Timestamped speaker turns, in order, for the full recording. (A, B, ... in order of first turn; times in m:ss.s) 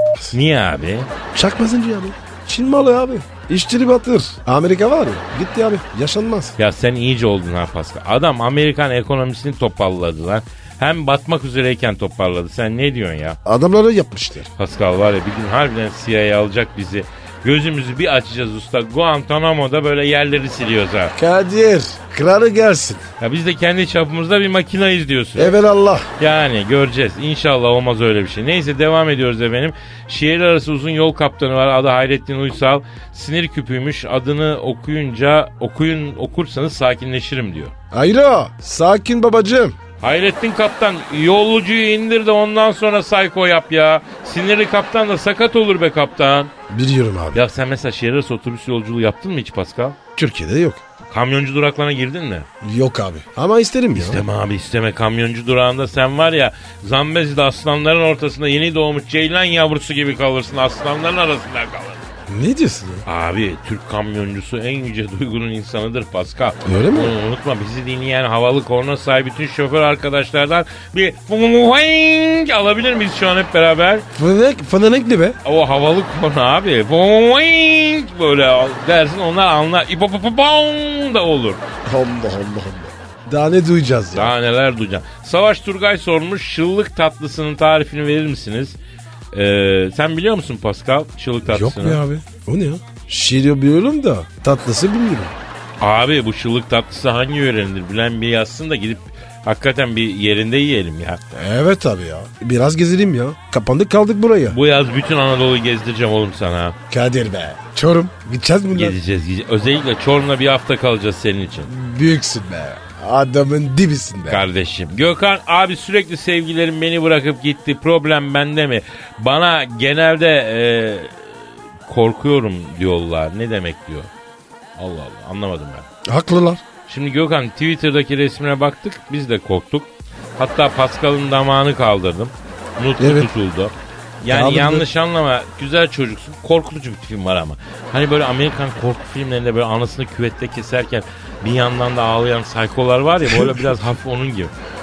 0:00.3-0:01.1 A
0:01.3-0:06.6 B
0:06.6-0:13.4 A
0:13.4-0:14.5 B
0:14.6-0:21.1 A
0:21.2-0:23.1 B
0:23.2-0:25.6 A
0:25.4-0:26.1 B
0:26.2-0:37.7 A
0:37.9-0:39.8 B
0:40.0-0:46.5 A
0:46.7-0:47.4 B
0:47.3-0:50.0 A
0:50.2-0:50.8 B
0:51.1-0:52.5 A
0:52.6-0:54.2 B
0:53.9-1:02.0 A
1:02.3-1:03.0 B
1:03.1-1:14.1 A
1:06.6-1:07.2 B
1:14.1-1:15.4 B
1:15.4-1:21.6 A
1:21.9-1:24.3 B
1:24.1-1:28.8 A
1:29.3-1:32.0 A
1:31.5-1:35.4 B
1:35.8-1:41.2 A
1:41.3-1:44.6 B
1:44.5-1:46.8 A
1:46.9-1:49.0 B
1:48.7-1:51.7 A
1:51.7-1:54.4 B
1:54.3-2:01.2 A
2:01.9-2:04.1 A
2:04.8-2:05.9 A
2:06.1-2:06.6 B
2:06.9-2:24.5 A
2:13.0-2:13.3 B
2:14.3-2:14.9 B